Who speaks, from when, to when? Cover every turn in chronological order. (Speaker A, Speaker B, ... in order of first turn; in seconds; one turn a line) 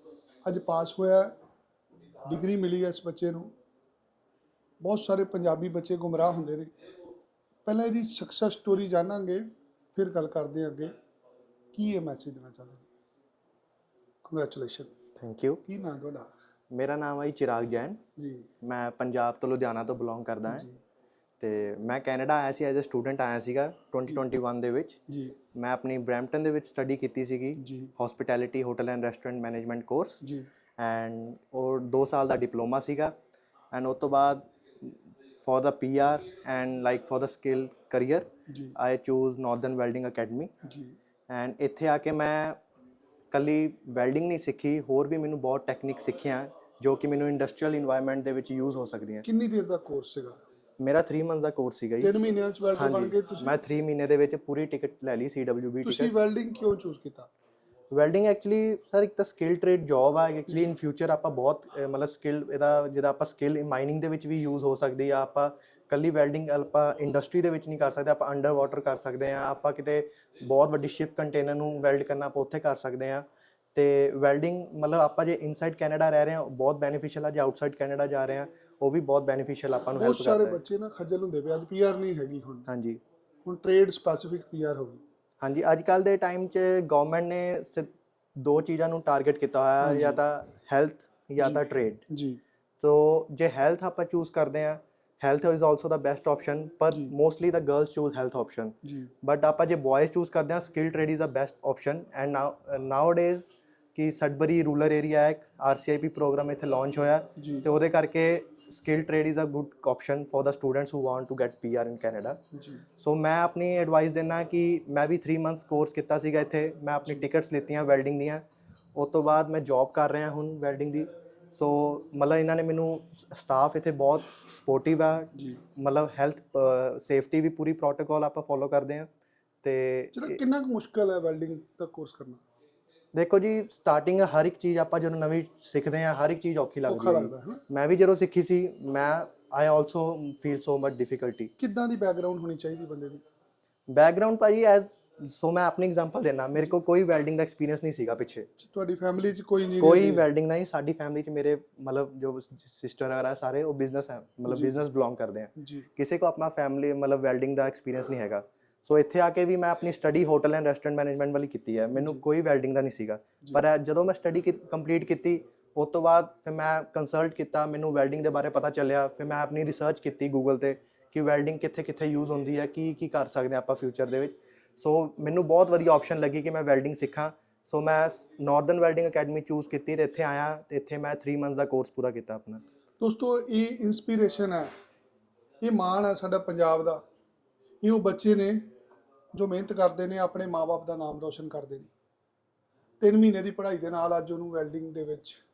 Speaker A: 0.4-1.3
Speaker A: 2.2-3.5
Speaker A: 4.8-6.7
Speaker A: 7.7-10.9
Speaker A: 11.7-12.9
Speaker A: 14.3-14.9
Speaker B: 15.2-15.6
Speaker A: 15.7-16.3
Speaker B: 16.7-18.0
Speaker A: 18.2-18.5
Speaker B: 18.6-20.7
Speaker A: 20.5-20.8
Speaker B: 21.4-25.0
Speaker A: 25.1-25.4
Speaker B: 25.5-30.2
Speaker A: 27.6-27.9
Speaker B: 30.8-33.1
Speaker B: 33.7-40.5
Speaker A: 38.5-38.8
Speaker A: 40.6-41.0
Speaker B: 41.3-42.6
Speaker B: 43.3-49.2
Speaker A: 49.2-50.4
Speaker B: 50.8-52.1
Speaker A: 52.0-53.6
Speaker B: 52.8-56.1
Speaker A: 55.8-57.3
Speaker B: 57.9-73.2
Speaker B: 73.8-80.6
Speaker A: 80.0-82.7
Speaker B: 82.7-83.0
Speaker A: 83.5-85.0
Speaker B: 85.4-92.0
Speaker A: 89.8-90.2
Speaker A: 91.4-92.4
Speaker B: 92.8-112.4
Speaker A: 98.8-99.1
Speaker A: 107.4-107.7
Speaker A: 112.5-112.8
Speaker B: 113.0-118.4
Speaker B: 119.0-129.1
Speaker A: 125.3-125.6
Speaker B: 129.6-130.4
Speaker A: 130.2-132.4
Speaker B: 133.1-141.5
Speaker A: 136.9-137.6
Speaker A: 141.6-143.2
Speaker B: 143.9-148.5
Speaker A: 148.6-150.2
Speaker B: 149.8-182.6
Speaker A: 154.5-154.8
Speaker A: 155.6-155.9
Speaker A: 162.0-162.2
Speaker A: 183.0-184.7
Speaker A: 185.6-187.0
Speaker A: 187.8-188.7
Speaker A: 189.3-191.9
Speaker A: 193.0-195.4